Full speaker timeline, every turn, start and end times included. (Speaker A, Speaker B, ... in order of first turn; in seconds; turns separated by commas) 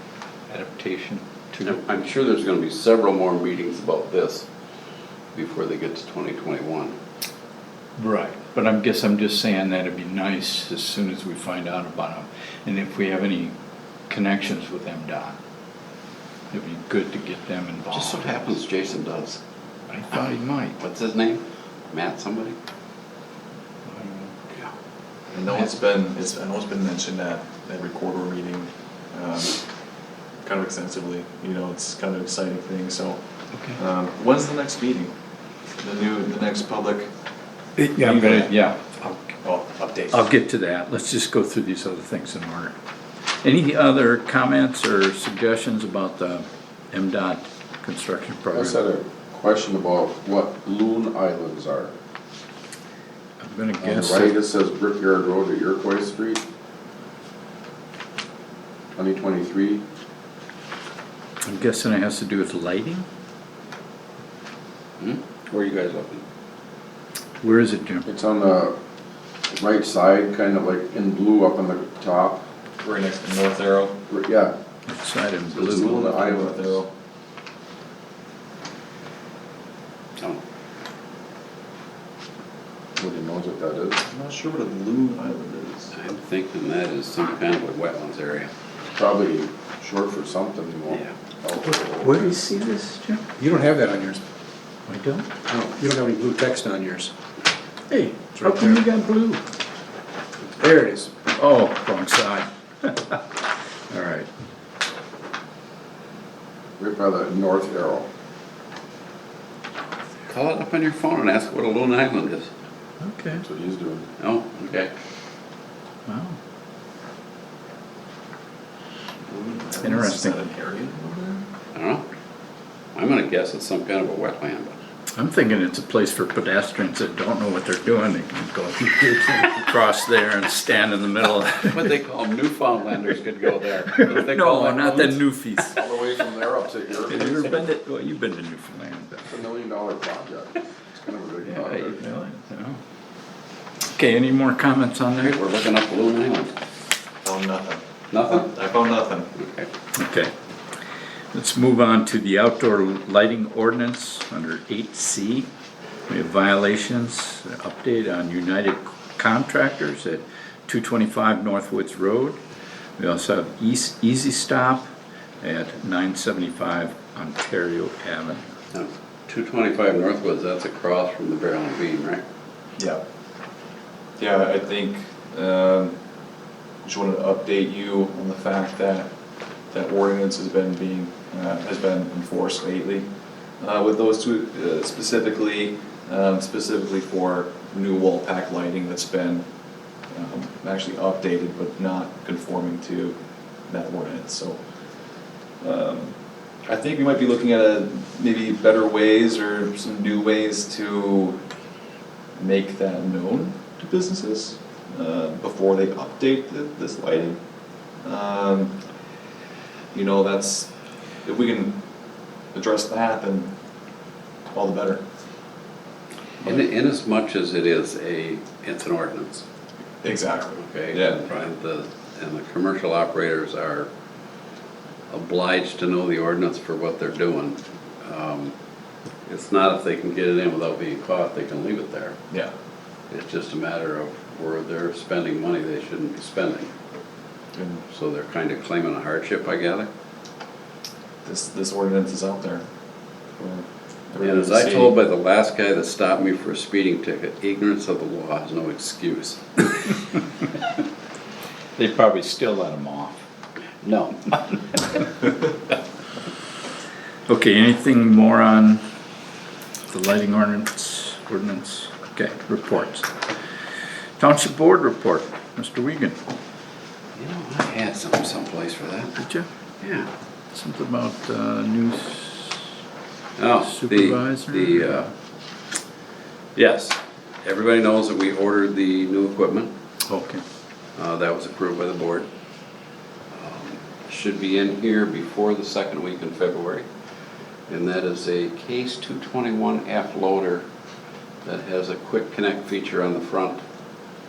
Speaker A: 0.5-1.8, Speaker B: 1.6-4.5, Speaker B: 5.3-6.9, Speaker A: 8.0-13.5, Speaker A: 14.1-15.4, Speaker A: 16.5-18.4, Speaker B: 17.9-19.4, Speaker A: 19.9-20.8, Speaker B: 20.2-22.6, Speaker A: 23.9-24.2, Speaker C: 25.3-29.6, Speaker C: 30.4-35.1, Speaker C: 35.8-37.1, Speaker A: 37.8-39.3, Speaker C: 38.0-38.5, Speaker C: 39.4-40.3, Speaker A: 40.1-42.7, Speaker A: 43.4-48.8, Speaker D: 48.5-51.9, Speaker A: 53.4-54.4, Speaker D: 53.8-56.4, Speaker D: 59.0-59.8, Speaker A: 61.4-63.0, Speaker B: 65.0-66.2, Speaker A: 67.4-68.1, Speaker D: 68.0-68.8, Speaker D: 69.5-72.4, Speaker C: 72.8-74.0, Speaker D: 74.1-74.5, Speaker A: 74.9-76.0, Speaker D: 75.5-76.8, Speaker C: 75.6-76.9, Speaker D: 83.0-84.0, Speaker C: 84.0-85.9, Speaker B: 85.9-88.5, Speaker D: 88.9-92.3, Speaker A: 91.7-93.3, Speaker E: 93.4-94.2, Speaker A: 94.9-95.3, Speaker E: 95.4-97.1, Speaker A: 97.9-99.4, Speaker E: 98.3-98.8, Speaker E: 100.6-101.1, Speaker A: 101.3-103.2, Speaker A: 103.9-104.3, Speaker D: 106.8-108.1, Speaker B: 110.3-112.5, Speaker A: 113.0-113.4, Speaker D: 113.4-114.1, Speaker B: 114.2-114.9, Speaker A: 116.0-116.4, Speaker C: 119.2-121.4, Speaker A: 119.8-120.4, Speaker B: 121.7-122.0, Speaker B: 122.9-124.7, Speaker A: 125.1-131.9, Speaker B: 131.7-135.2, Speaker A: 134.0-135.8, Speaker D: 135.7-137.6, Speaker A: 137.1-139.3, Speaker D: 139.3-142.0, Speaker A: 141.4-142.8, Speaker A: 143.9-145.4, Speaker B: 145.2-146.5, Speaker C: 147.2-149.3, Speaker B: 148.1-148.5, Speaker B: 149.3-149.7, Speaker A: 149.9-150.3, Speaker A: 151.3-155.5, Speaker A: 156.1-162.4, Speaker A: 163.0-164.9, Speaker A: 165.4-168.5, Speaker B: 168.7-172.2, Speaker C: 172.8-173.0, Speaker C: 174.2-176.0, Speaker C: 176.8-179.1, Speaker C: 179.7-194.6, Speaker C: 195.6-201.4, Speaker C: 202.4-207.4, Speaker C: 208.0-208.8, Speaker C: 209.9-210.7, Speaker C: 211.2-211.8, Speaker C: 212.5-213.5, Speaker C: 214.5-215.0, Speaker B: 216.4-219.4, Speaker C: 220.0-221.3, Speaker B: 220.6-223.9, Speaker B: 225.1-228.5, Speaker B: 229.2-232.2, Speaker B: 233.1-236.7, Speaker C: 237.5-237.8, Speaker B: 237.9-239.9, Speaker C: 241.2-242.7, Speaker C: 243.4-245.0, Speaker B: 244.2-250.0, Speaker A: 251.8-253.2, Speaker B: 253.8-254.5, Speaker A: 257.3-258.8, Speaker A: 259.9-263.1, Speaker A: 264.2-266.2, Speaker B: 267.1-269.2, Speaker A: 269.2-269.5, Speaker B: 269.8-270.1, Speaker A: 270.5-272.6, Speaker B: 273.4-275.1, Speaker A: 273.6-275.1, Speaker B: 276.6-279.7, Speaker A: 280.1-280.4, Speaker B: 281.0-282.3, Speaker B: 283.4-286.9, Speaker B: 287.7-290.6, Speaker B: 291.4-293.6